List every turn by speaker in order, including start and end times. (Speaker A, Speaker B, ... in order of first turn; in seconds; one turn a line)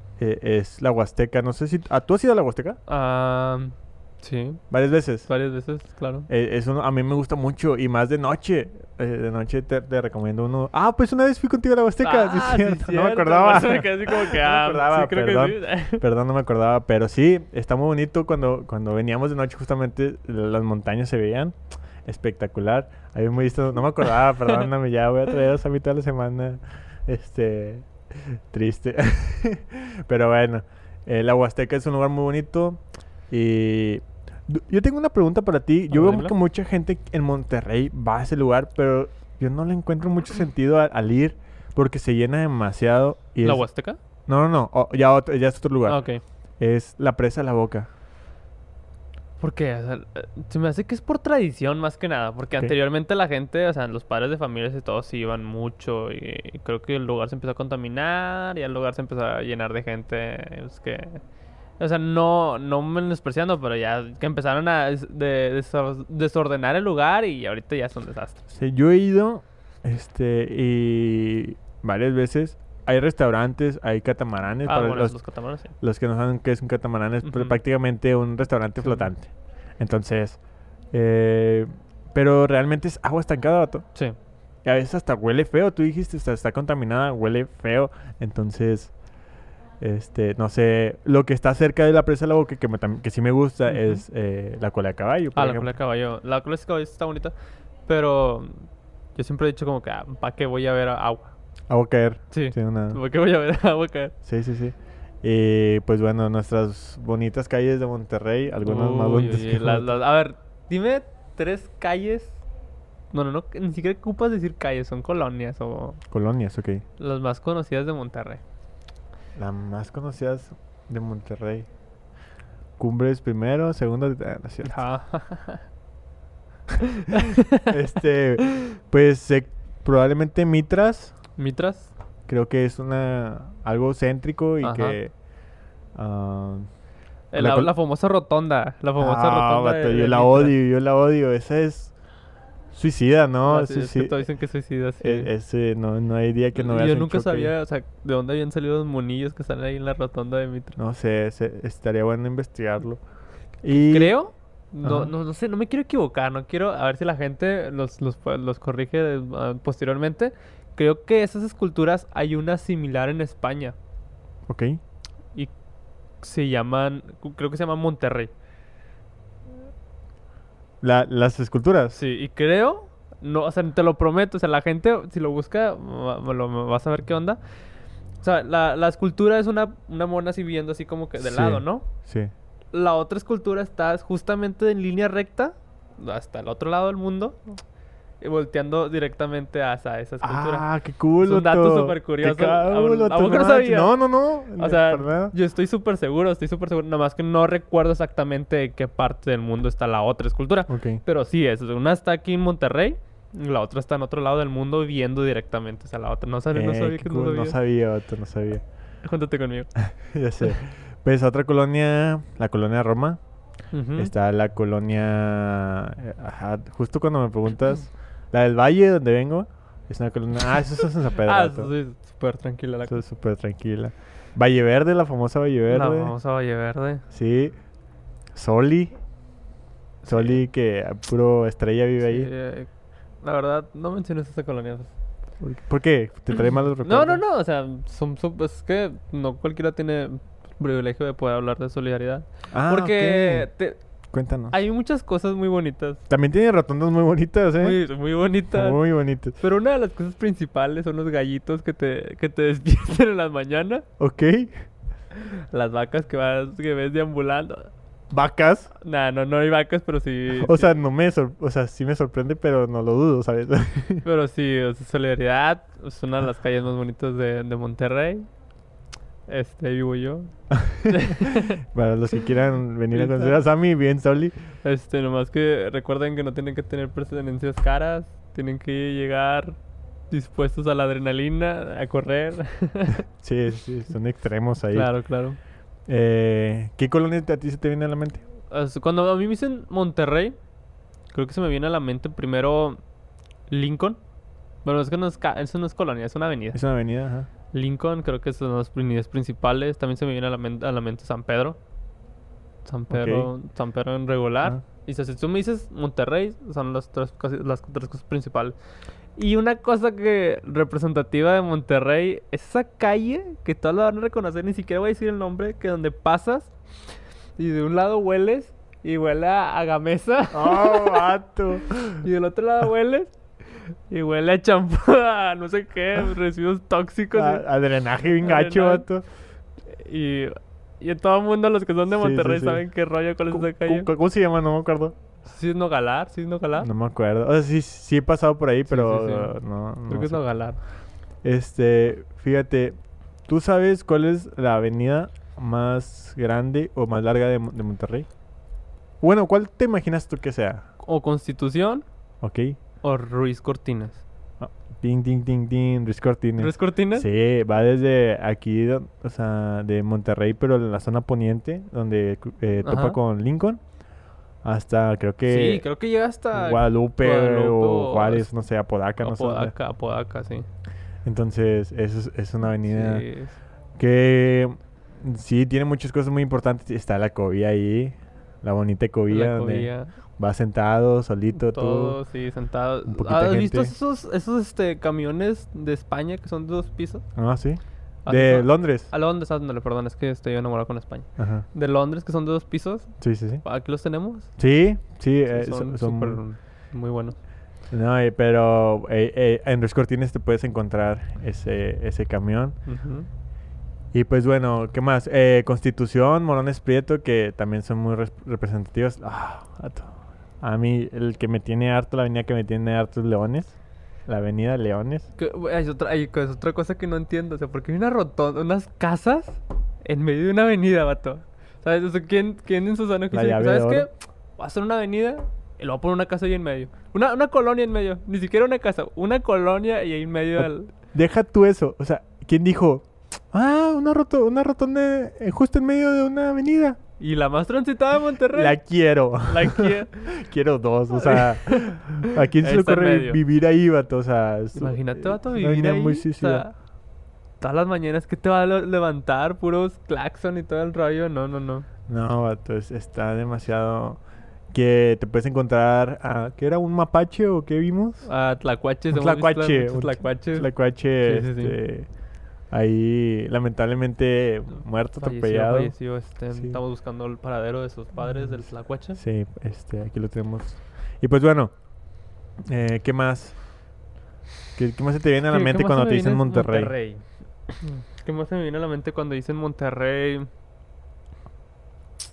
Speaker A: 0.2-2.8
Speaker B: 2.9-4.6
Speaker A: 4.7-5.3
Speaker B: 5.3-6.3
Speaker A: 6.3-43.6
Speaker B: 12.0-16.0
Speaker B: 35.9-36.3
Speaker B: 43.4-44.0
Speaker A: 44.2-46.0
Speaker B: 45.9-46.2
Speaker A: 46.6-47.9
Speaker B: 49.4-61.2
Speaker B: 61.8-68.4
Speaker A: 68.5-75.2
Speaker B: 74.6-75.7
Speaker A: 75.8-80.4
Speaker B: 77.2-77.6
Speaker B: 78.8-79.1
Speaker A: 80.9-83.8
Speaker A: 84.6-88.9
Speaker A: 89.8-95.7
Speaker B: 93.7-94.0
Speaker B: 95.3-97.3
Speaker B: 97.9-101.3
Speaker A: 101.7-103.0
Speaker B: 102.3-104.1
Speaker A: 104.2-109.9
Speaker B: 108.6-112.4
Speaker B: 113.1-116.0
Speaker A: 116.1-116.8
Speaker B: 117.0-118.4
Speaker A: 119.3-121.7
Speaker A: 122.8-124.8
Speaker B: 124.6-125.6
Speaker B: 126.8-127.7
Speaker A: 127.6-131.2
Speaker B: 131.4-131.9
Speaker A: 132.3-135.1
Speaker B: 134.6-134.9
Speaker A: 135.9-136.7
Speaker B: 137.3-140.5
Speaker A: 137.3-137.7
Speaker A: 139.0-141.9
Speaker A: 142.7-144.2
Speaker B: 143.4-145.3
Speaker A: 145.0-147.5
Speaker B: 146.5-150.8
Speaker A: 150.8-153.0
Speaker A: 153.6-154.1
Speaker B: 153.7-163.8
Speaker A: 154.8-155.1
Speaker A: 164.5-164.8
Speaker B: 166.2-168.3
Speaker A: 170.8-172.0
Speaker B: 171.9-177.4
Speaker B: 178.2-181.9
Speaker A: 181.2-182.3
Speaker B: 182.7-187.6
Speaker B: 188.2-190.7
Speaker A: 190.2-195.3
Speaker B: 191.2-194.0
Speaker B: 194.6-207.6
Speaker A: 200.7-201.0
Speaker A: 206.5-208.6
Speaker B: 209.0-209.7
Speaker A: 209.8-213.2
Speaker B: 213.7-214.1
Speaker A: 213.9-221.7
Speaker B: 221.1-223.0
Speaker A: 222.9-226.1
Speaker B: 225.7-227.0
Speaker A: 227.1-227.6
Speaker A: 228.3-228.9
Speaker B: 230.0-230.4
Speaker A: 230.1-232.3
Speaker B: 232.0-232.7
Speaker B: 233.2-234.9
Speaker A: 235.4-237.2
Speaker B: 236.8-243.8
Speaker A: 242.5-243.5
Speaker A: 244.1-244.6
Speaker B: 244.5-246.0
Speaker A: 246.1-247.8
Speaker B: 247.6-248.8
Speaker A: 248.5-249.3
Speaker B: 249.4-253.8
Speaker A: 254.0-254.6
Speaker B: 255.1-257.7
Speaker A: 258.1-258.7
Speaker B: 258.8-260.8
Speaker A: 260.4-264.1
Speaker B: 264.0-268.3
Speaker B: 269.3-270.3
Speaker A: 270.5-274.3
Speaker B: 270.8-271.6
Speaker B: 272.9-273.4
Speaker B: 274.6-279.6
Speaker B: 280.1-283.0
Speaker A: 283.2-284.9
Speaker B: 284.7-285.4
Speaker A: 285.9-288.2
Speaker B: 288.5-290.4
Speaker B: 291.1-292.8
Speaker B: 293.5-294.0
Speaker B: 294.6-296.6
Speaker A: 296.5-297.3
Speaker B: 297.5-301.6
Speaker B: 302.6-308.6
Speaker A: 302.9-303.3
Speaker B: 309.1-316.5
Speaker B: 317.4-321.1
Speaker A: 320.3-322.1
Speaker B: 322.0-327.4
Speaker A: 327.1-329.0
Speaker B: 328.1-328.9
Speaker B: 329.6-333.9
Speaker A: 331.9-332.6
Speaker A: 333.3-334.9
Speaker B: 335.2-336.7
Speaker A: 336.6-340.2
Speaker B: 338.7-339.4
Speaker B: 339.9-340.6
Speaker A: 341.2-348.1
Speaker A: 349.0-350.6
Speaker B: 350.8-351.8
Speaker A: 352.2-352.6
Speaker B: 352.8-354.0
Speaker A: 354.4-363.6
Speaker B: 356.4-357.1
Speaker B: 362.6-363.0
Speaker A: 364.4-365.6
Speaker B: 365.2-368.3
Speaker A: 366.3-369.5
Speaker B: 369.0-370.4
Speaker A: 371.0-373.0
Speaker B: 372.6-373.4
Speaker A: 373.8-382.0
Speaker B: 379.1-379.9
Speaker B: 381.3-387.0
Speaker A: 382.9-383.7
Speaker A: 387.1-388.9
Speaker B: 388.1-394.3
Speaker A: 391.2-391.4
Speaker A: 393.0-393.4
Speaker A: 394.4-396.2
Speaker B: 395.3-397.2
Speaker A: 397.7-402.6
Speaker B: 402.6-403.1
Speaker A: 403.9-413.6
Speaker A: 414.1-415.1
Speaker B: 415.2-430.7
Speaker A: 423.1-423.9
Speaker A: 430.4-436.8
Speaker B: 437.0-438.6
Speaker A: 438.3-446.4
Speaker B: 439.2-440.1
Speaker B: 440.9-443.2
Speaker B: 444.6-446.5
Speaker B: 447.4-451.7
Speaker A: 451.9-454.0
Speaker A: 454.5-458.1
Speaker B: 458.0-461.6
Speaker A: 458.9-461.9
Speaker A: 462.5-465.7
Speaker B: 465.0-469.0
Speaker A: 466.3-466.6
Speaker A: 468.9-471.5
Speaker A: 472.4-473.4
Speaker A: 474.6-476.7
Speaker B: 475.2-480.3